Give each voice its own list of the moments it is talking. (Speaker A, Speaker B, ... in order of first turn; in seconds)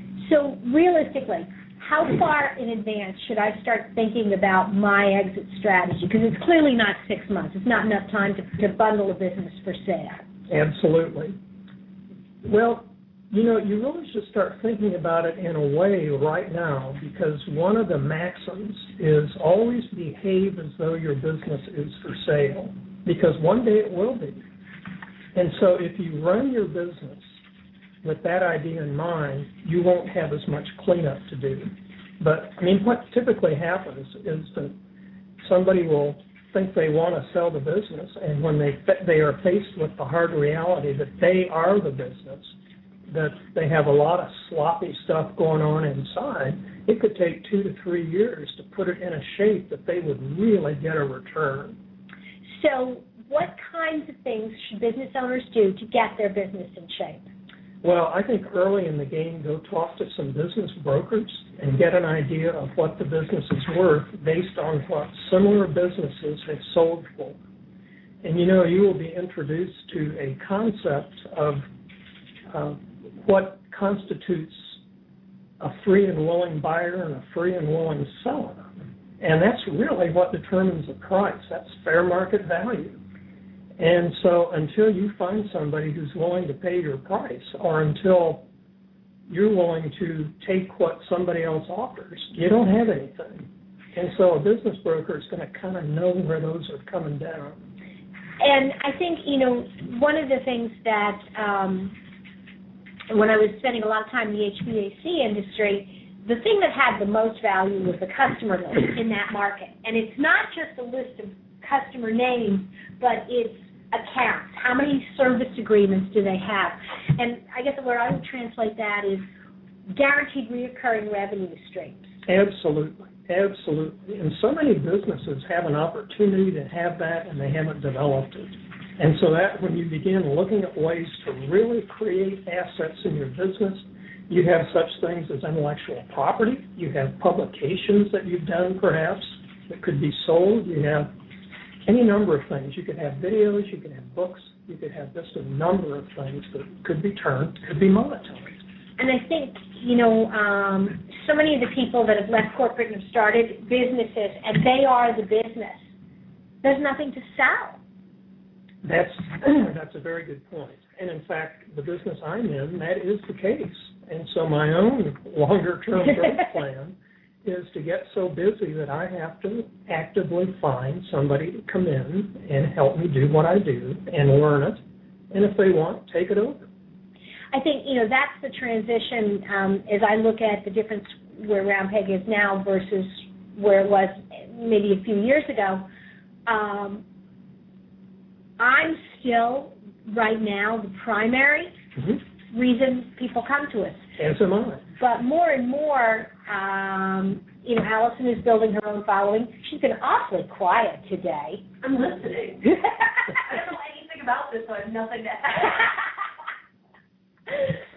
Speaker A: 0.2-10.2, 52.5-57.2, 98.4-102.0, 103.1-119.3, 119.9-122.1, 149.0-155.8, 156.6-157.8, 177.5-185.8, 186.5-187.1, 188.6-191.8, 192.5-194.0, 195.0-201.7
Speaker B: 10.5-11.4, 12.4-24.4, 25.4-27.3, 28.0-34.8, 35.4-42.5, 43.1-51.8, 57.8-67.4, 68.2-71.7, 72.5-74.8, 75.6-78.7, 79.2-83.0, 83.8-88.5, 89.3-97.6, 122.3-141.1, 141.9-148.6, 158.8-174.8, 175.3-176.7, 194.2-194.8
Speaker C: 201.8-206.0